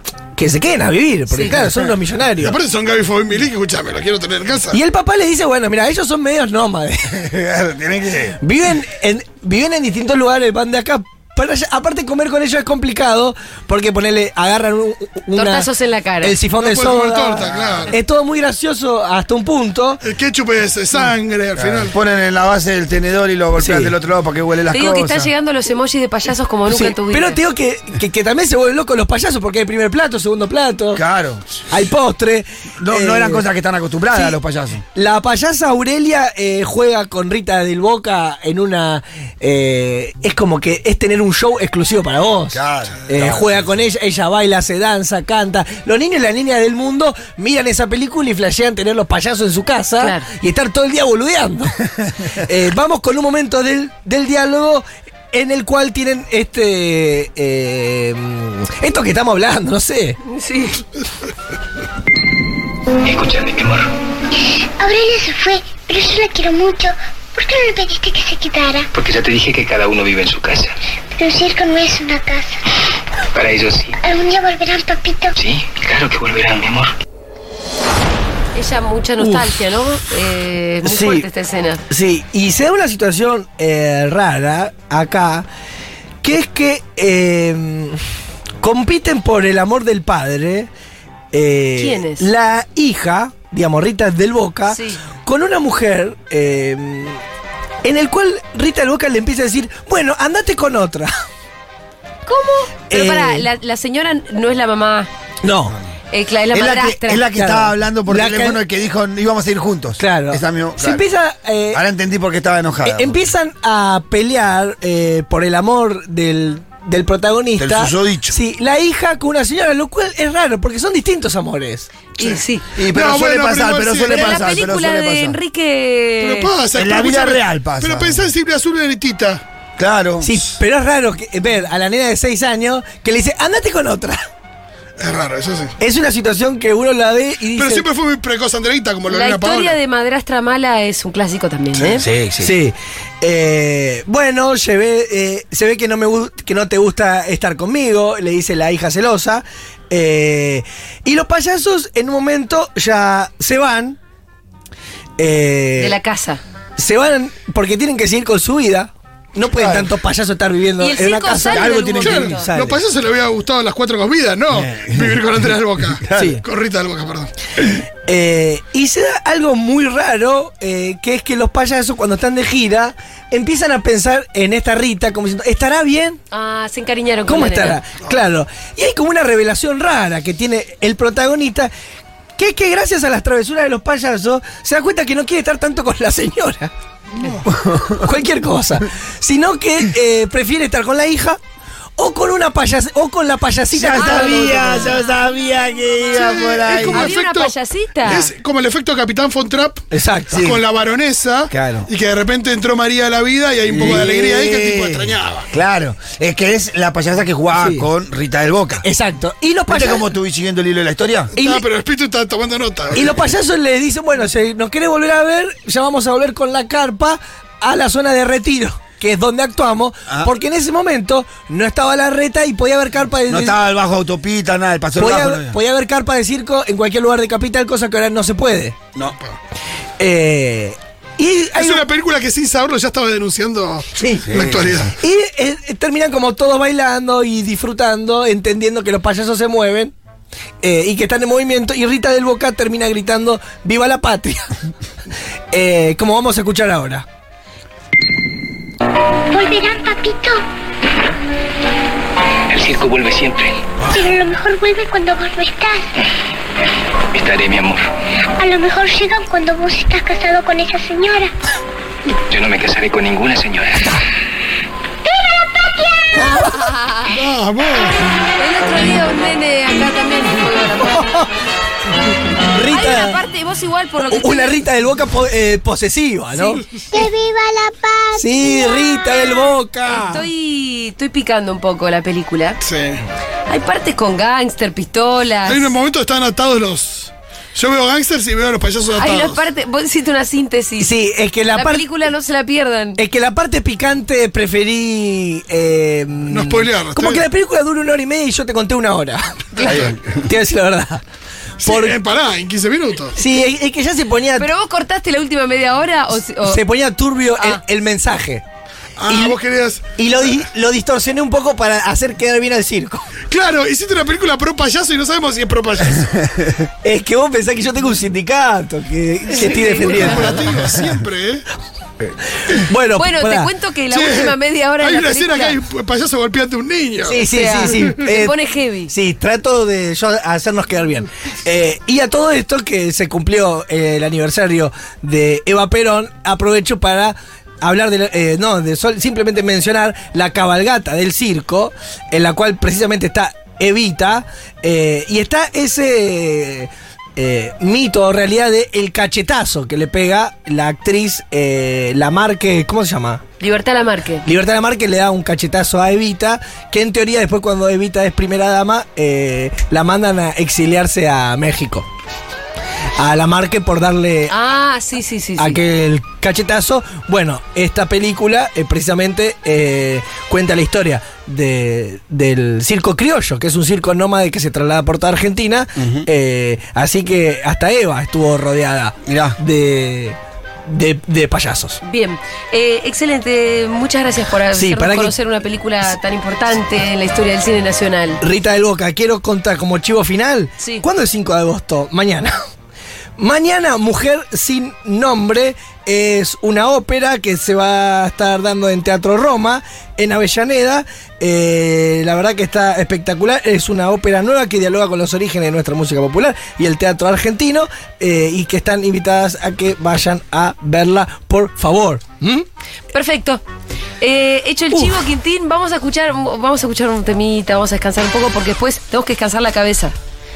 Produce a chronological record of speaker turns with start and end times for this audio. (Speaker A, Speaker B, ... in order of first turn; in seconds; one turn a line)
Speaker A: 0.3-2.6
Speaker B: 1.3-1.7
Speaker C: 2.4-4.8
Speaker A: 4.7-7.5
Speaker D: 7.3-8.2
Speaker A: 8.1-15.7
Speaker B: 15.3-16.4
Speaker A: 16.2-20.0
Speaker C: 16.5-17.9
Speaker D: 17.4-17.9
Speaker C: 20.0-21.9
Speaker D: 21.6-25.3
Speaker A: 23.5-24.0
Speaker B: 24.7-27.4
Speaker A: 26.7-31.1
Speaker D: 30.9-31.4
Speaker A: 31.7-33.5
Speaker D: 32.8-34.8
Speaker A: 34.1-34.4
Speaker A: 34.9-51.9
Speaker D: 42.5-43.7
Speaker B: 50.0-50.3
Speaker A: 52.4-60.2
Speaker B: 60.3-60.8
Speaker E: 63.0-63.9
Speaker F: 64.8-68.9
Speaker E: 68.9-70.7
Speaker F: 71.2-72.6
Speaker E: 73.3-74.0
Speaker F: 74.0-75.3
Speaker E: 75.4-76.9
Speaker B: 78.5-81.8
Speaker A: 79.2-79.5
Speaker A: 80.8-81.3
Speaker A: 81.9-85.5
Speaker A: 86.2-88.0
Speaker A: 88.6-90.7
Speaker A: 91.3-97.2
Speaker B: 91.7-92.3
Speaker B: 94.7-95.0
Speaker A: 97.8-101.1
Speaker B: 102.2-105.1
Speaker A: 102.9-103.5
Speaker A: 105.4-105.8
Speaker B: 106.1-107.3
Speaker D: 106.5-111.1
Speaker A: 107.3-108.7
Speaker A: 110.0-122.0
Speaker D: 111.7-113.2
Speaker D: 117.6-118.3
Speaker B: 122.2-122.7
Speaker C: 122.2-124.5
Speaker D: 122.8-125.4
Speaker B: 124.1-126.5
Speaker A: 124.2-124.9
Speaker C: 126.2-129.4
Speaker D: 126.8-128.2
Speaker D: 129.8-130.5
Speaker A: 130.2-134.3
Speaker C: 135.0-135.7
Speaker A: 135.8-137.9
Speaker C: 137.5-139.8
Speaker B: 139.1-142.1
Speaker D: 142.0-142.6
Speaker A: 142.3-154.0
Speaker A: 155.2-155.9
Speaker B: 155.8-156.4
Speaker A: 156.8-162.8
Speaker D: 159.5-160.0
Speaker B: 160.8-162.5
Speaker C: 161.5-167.3
Speaker D: 161.6-162.4
Speaker D: 164.5-165.2
Speaker D: 166.1-166.3
Speaker A: 167.6-176.2
Speaker B: 176.3-177.8
Speaker A: 177.3-181.7
Speaker A: 182.4-186.7
Speaker A: 187.9-191.4
Speaker A: 192.0-195.0
Speaker D: 193.7-197.1
Speaker B: 193.9-195.2
Speaker C: 196.1-197.5
Speaker B: 196.9-198.3
Speaker C: 198.1-199.8
Speaker A: 199.9-200.3
Speaker D: 200.3-200.6
Speaker C: 200.4-205.5
Speaker D: 201.5-201.9
Speaker D: 203.7-208.8
Speaker A: 207.5-207.9
Speaker A: 208.8-210.1
Speaker D: 209.7-211.3
Speaker C: 211.3-213.2
Speaker A: 211.3-211.6
Speaker A: 213.0-223.7
Speaker D: 223.3-225.6
Speaker A: 224.9-228.9
Speaker A: 230.0-231.8
Speaker C: 231.6-234.9
Speaker D: 234.2-234.8
Speaker A: 235.0-239.9
Speaker A: 240.6-244.5
Speaker A: 245.5-247.1
Speaker F: 249.3-250.4
Speaker E: 252.5-253.6
Speaker F: 253.9-255.8
Speaker E: 257.1-257.8
Speaker F: 258.4-261.3
Speaker E: 262.3-264.0
Speaker F: 265.0-266.8
Speaker B: 266.1-267.2
Speaker C: 267.1-268.0
Speaker B: 268.3-271.2
Speaker A: 272.5-273.2
Speaker B: 272.6-274.7
Speaker A: 274.0-276.6
Speaker B: 276.3-277.1
Speaker F: 276.9-278.8
Speaker A: 278.2-280.3
Speaker B: 279.1-282.6
Speaker C: 282.6-283.0
Speaker B: 283.5-285.7
Speaker C: 285.4-289.4
Speaker B: 288.9-293.0
Speaker A: 290.8-291.8
Speaker A: 293.0-299.4
Speaker C: 296.3-297.3
Speaker C: 299.6-299.9
Speaker A: 300.2-301.0
Speaker C: 301.6-303.2
Speaker A: 301.6-301.9
Speaker A: 303.2-304.4
Speaker B: 304.3-306.7
Speaker A: 306.5-308.4
Speaker B: 307.3-307.6
Speaker C: 309.0-309.8
Speaker A: 310.0-313.1
Speaker C: 313.3-316.3
Speaker A: 316.8-320.5
Speaker B: 319.3-320.4
Speaker C: 319.5-321.4
Speaker A: 322.7-323.5
Speaker B: 322.9-325.6
Speaker C: 323.9-328.0
Speaker A: 327.1-328.4
Speaker B: 327.2-328.9
Speaker A: 328.9-353.2
Speaker B: 353.4-354.3
Speaker A: 354.2-361.9
Speaker A: 362.9-364.3
Speaker B: 364.3-365.6
Speaker A: 365.4-381.8
Speaker D: 375.8-376.1
Speaker D: 379.1-379.4
Speaker B: 381.8-388.2
Speaker A: 384.5-385.1
Speaker A: 388.2-392.4
Speaker B: 390.6-390.9
Speaker A: 393.2-412.5
Speaker B: 412.9-413.4
Speaker B: 414.0-419.9
Speaker A: 414.7-415.0